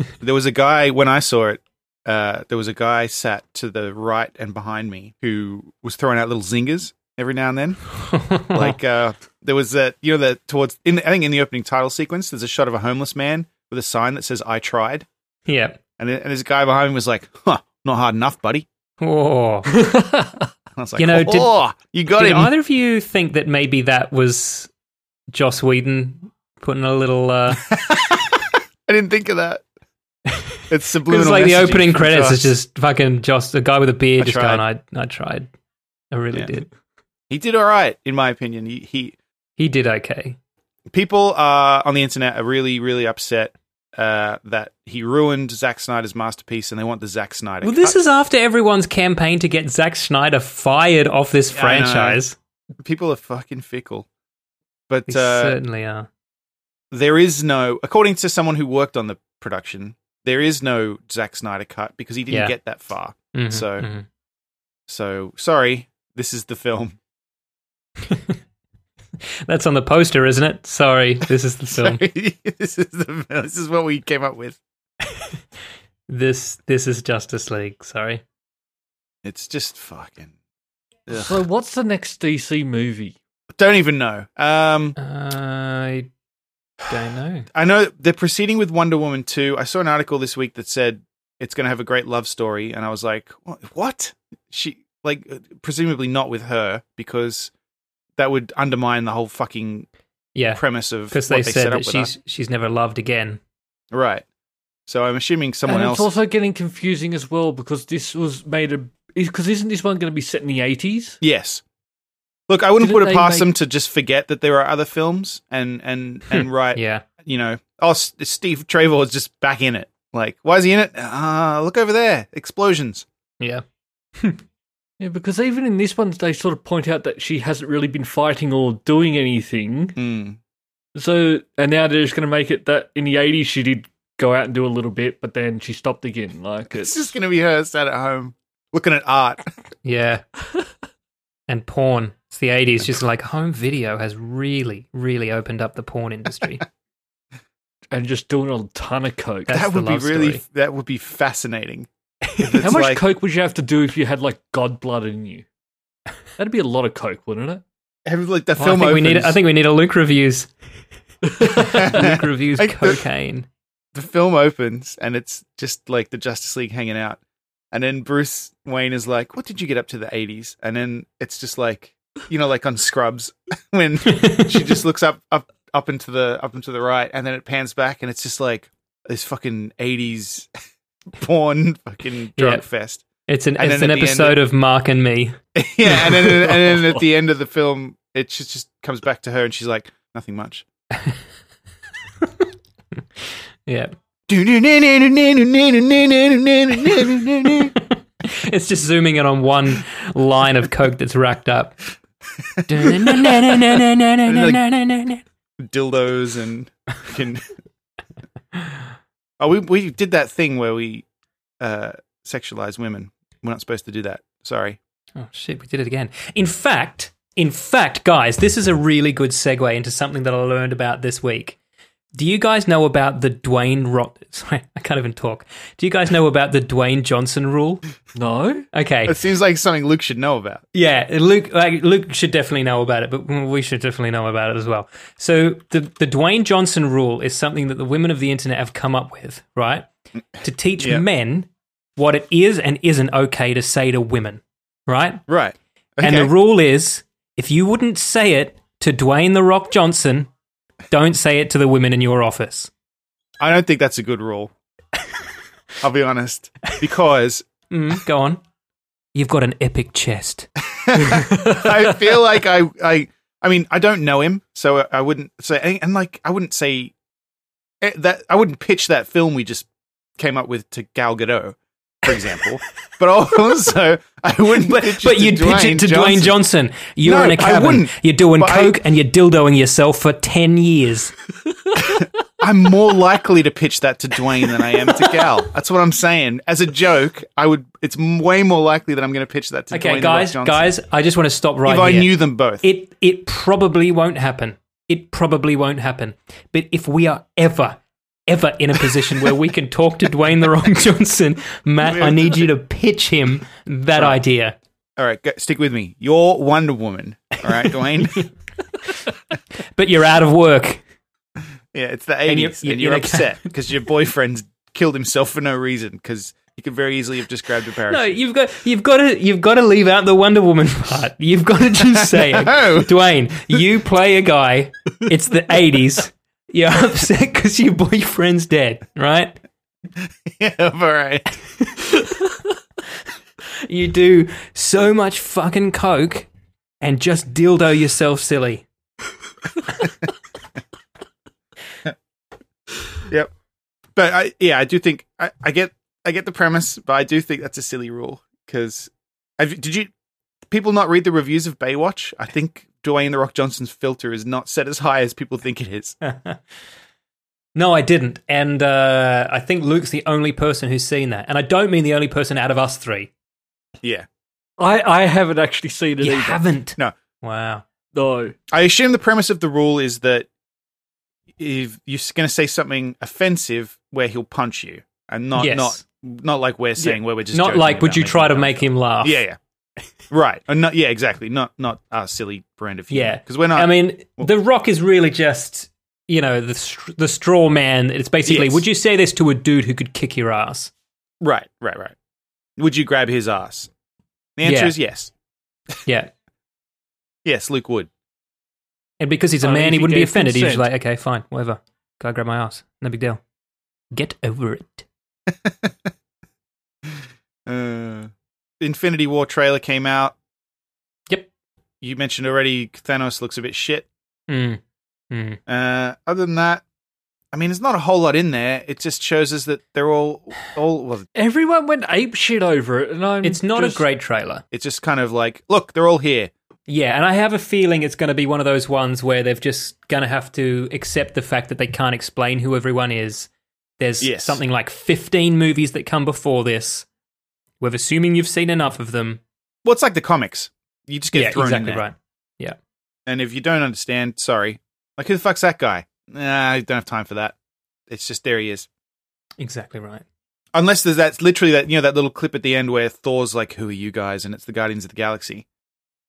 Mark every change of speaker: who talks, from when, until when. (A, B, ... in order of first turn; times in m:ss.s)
0:00.2-0:07.8 A
0:08.1-0:08.7 B
0:08.5-0:15.1 A
0:15.5-0:15.8 B
0:16.0-0:18.7 A
0:19.0-0:19.7 B
0:19.7-0:20.5 C
0:20.8-0:22.5 A
0:21.0-0:21.5 B
0:22.1-0:24.7 B
0:25.3-0:27.7 B
0:27.6-0:29.6 A
0:30.7-0:32.5 A
0:31.0-0:35.5 B
0:34.2-0:34.6 A
0:36.1-0:36.7 B
0:37.3-0:39.2 A
0:39.6-0:40.4 B
0:40.9-0:48.0 A
0:47.6-0:52.4 B
0:51.5-0:52.2 A
0:52.8-0:54.1 A
0:54.9-0:55.6 A
0:55.1-0:56.1 B
0:56.9-1:03.9 A
1:03.3-1:04.0 B
1:04.9-1:07.0 A
1:08.1-1:08.4 B
1:09.4-1:12.0 B
1:11.7-1:14.6 A
1:16.1-1:18.2 B
1:19.2-1:20.3 A
1:21.1-1:21.4 A
1:21.1-1:23.2 C
1:23.5-1:25.0 A
1:25.0-1:26.1 B
1:26.9-1:27.5 B
1:27.5-1:37.5 A
1:38.2-1:39.9 A
1:40.3-1:43.4 B
1:40.5-1:42.1 A
1:43.9-1:44.2 A
1:44.9-1:46.1 A
1:45.6-1:51.2 C
1:51.2-1:51.6 A
1:52.5-2:03.0 A
1:52.8-1:53.5 C
1:56.7-1:57.0 B
2:05.0-2:10.0 C
2:10.0-2:10.4 A
2:10.9-2:17.0 C
2:16.8-2:19.5 A
2:19.8-2:20.2 B
2:21.5-2:26.6 B
2:27.9-2:29.5 C
2:29.5-2:30.4 B
2:29.5-2:33.0 A
2:32.6-2:35.4 C
2:36.4-2:37.6 C
2:38.0-2:39.4 A
2:38.6-2:40.5 B
2:41.3-2:41.8 C
2:41.4-2:43.5 B
2:41.6-2:43.0 A
2:43.9-2:47.2 A
2:47.7-3:00.5 A
2:54.1-2:54.5 B
3:01.1-3:03.0 A
3:02.4-3:02.6 B
3:03.3-3:06.7 B
3:03.6-3:04.4 A
3:05.5-3:10.6 A
3:10.9-3:11.2 B
3:12.2-3:12.5 B
3:13.2-3:13.9 B
3:14.3-3:17.7 A
3:16.8-3:21.8 B
3:22.4-3:24.6 A
3:22.6-3:25.2 B
3:25.6-3:27.5 A
3:29.4-3:31.0 A
3:31.6-3:34.8 A
3:35.2-3:41.6 B
3:42.1-3:47.8 B
3:48.2-3:48.6 C
3:48.7-3:49.2 B
3:49.0-3:50.6 A
3:50.7-3:59.9 B
4:00.4-4:05.2 B
4:00.8-4:01.0 A
4:05.3-4:06.3 A
4:06.0-4:10.3 B
4:10.9-4:12.7 B
4:13.4-4:14.5 A
4:15.8-4:17.4 A
4:17.7-4:18.4 B
4:19.1-4:20.5 B
4:20.6-4:26.9 A
4:21.0-4:21.6 C
4:27.8-4:29.7 A
4:30.2-4:36.4 A
4:34.6-4:41.1 B
4:37.0-4:38.7 A
4:41.8-4:50.7 A
4:49.7-5:04.6 B
4:51.6-4:52.6 A
5:01.8-5:02.5 A
5:03.9-5:04.2 A
5:05.0-5:08.3 A
5:09.8-5:10.8 B
5:11.7-5:18.2 A
5:12.2-5:13.4 B
5:17.9-5:29.4 B
5:21.9-5:22.9 A
5:30.0-5:31.3 A
5:33.7-5:36.3 B
5:36.8-5:38.6 B
5:43.9-5:49.9 A
5:50.5-5:56.0 A
5:56.0-5:56.4 B
5:57.5-6:03.1 B
6:03.8-6:04.1 A
6:04.6-6:06.4 C
6:06.0-6:07.6 B
6:07.9-6:08.3 C
6:08.5-6:10.3 A
6:11.4-6:19.4 A
6:15.3-6:15.8 B
6:17.3-6:19.2 B
6:20.1-6:24.3 A
6:22.9-6:30.7 B
6:28.2-6:28.6 A
6:31.2-6:31.9 A
6:32.6-6:33.7 A
6:34.4-6:35.1 A
6:34.4-6:34.7 B
6:35.8-6:36.1 B
6:37.2-6:37.9 A
6:39.0-6:43.2 B
6:39.4-6:40.7 C
6:43.9-6:44.8 B
6:45.3-6:45.8 A
6:46.9-6:50.1 A
6:51.8-6:53.9 A
6:54.3-6:54.6 B
6:55.1-6:55.4 B
6:55.5-6:56.6 A
6:57.3-7:01.0 A
7:01.2-7:03.8 C
7:03.2-7:04.4 B
7:04.5-7:06.3 A
7:06.7-7:13.3 B
7:13.8-7:16.8 B
7:14.0-7:14.4 A
7:17.6-7:19.2 B
7:19.6-7:21.8 A
7:21.1-7:22.6 B
7:23.1-7:27.3 A
7:27.9-7:28.7 A
7:29.4-7:30.0 B
7:30.5-7:35.4 A